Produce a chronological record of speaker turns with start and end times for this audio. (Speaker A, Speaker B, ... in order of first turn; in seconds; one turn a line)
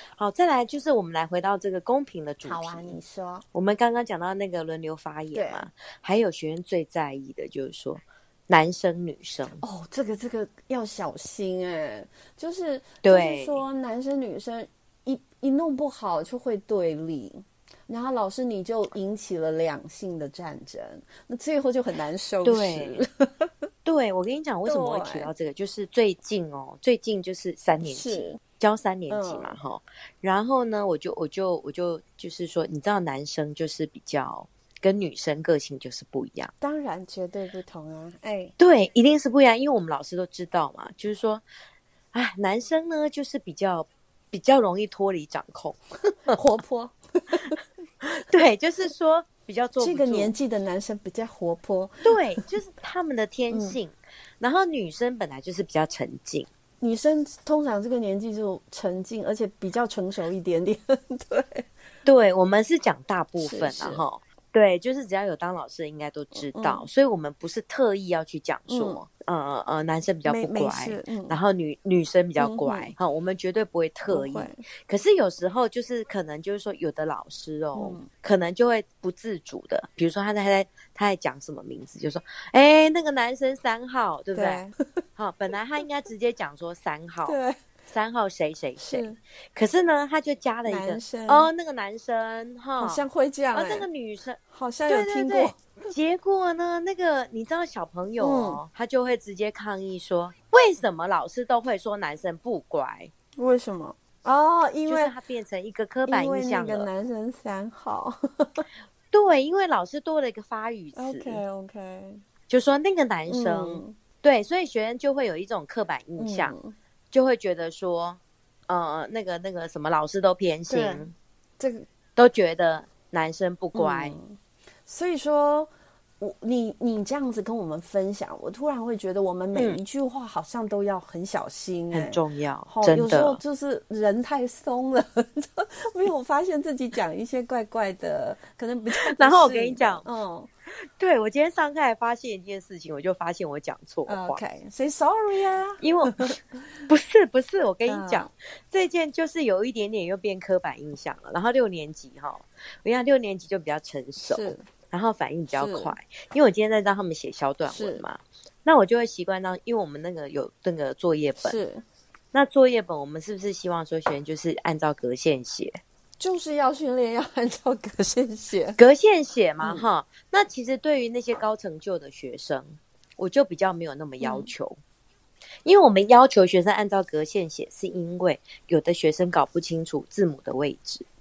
Speaker A: 0.2-3.0
Speaker B: 2.4-3.4
Speaker A: 3.5-9.6
Speaker B: 5.3-5.7
Speaker B: 9.6-23.5
Speaker A: 13.0-13.6
Speaker A: 22.4-23.0
Speaker A: 23.8-36.5
Speaker B: 24.6-25.3
Speaker B: 27.8-28.4
Speaker B: 29.1-29.6
Speaker B: 36.6-38.5
Speaker A: 38.6-41.4
Speaker A: 42.1-46.4
Speaker B: 46.3-47.6
Speaker A: 47.4-50.3
Speaker B: 49.8-52.4
Speaker A: 52.0-56.5
Speaker B: 53.5-53.8
Speaker B: 56.8-61.7
Speaker A: 62.0-84.6
Speaker B: 63.4-64.0
Speaker B: 66.3-66.8
Speaker B: 68.7-69.0
Speaker B: 70.2-71.4
Speaker B: 72.4-72.9
Speaker B: 74.1-74.6
Speaker B: 77.7-78.1
Speaker B: 84.3-84.8
Speaker A: 85.2-87.4
Speaker B: 87.2-87.6
Speaker A: 87.9-103.1
Speaker B: 88.8-89.2
Speaker B: 90.7-91.5
Speaker B: 92.8-93.9
Speaker B: 94.5-95.6
Speaker B: 98.2-98.6
Speaker B: 103.4-105.1
Speaker A: 104.8-106.9
Speaker B: 106.1-108.7
Speaker A: 109.1-111.4
Speaker B: 110.9-112.2
Speaker A: 112.5-116.5
Speaker B: 113.3-114.0
Speaker B: 116.2-116.7
Speaker A: 117.1-121.1
Speaker B: 120.7-121.1
Speaker B: 121.6-121.9
Speaker A: 122.2-124.2
Speaker B: 123.7-140.5
Speaker A: 129.5-129.8
Speaker A: 131.9-133.4
Speaker A: 139.0-140.0
Speaker A: 140.8-144.4
Speaker B: 144.1-146.6
Speaker A: 145.8-146.3
Speaker A: 146.9-161.6
Speaker B: 147.8-148.3
Speaker B: 154.2-154.6
Speaker B: 155.5-155.9
Speaker B: 157.7-158.0
Speaker B: 161.4-161.8
Speaker A: 162.3-165.8
Speaker B: 166.2-168.8
Speaker A: 168.8-174.8
Speaker B: 174.2-174.5
Speaker A: 175.6-181.0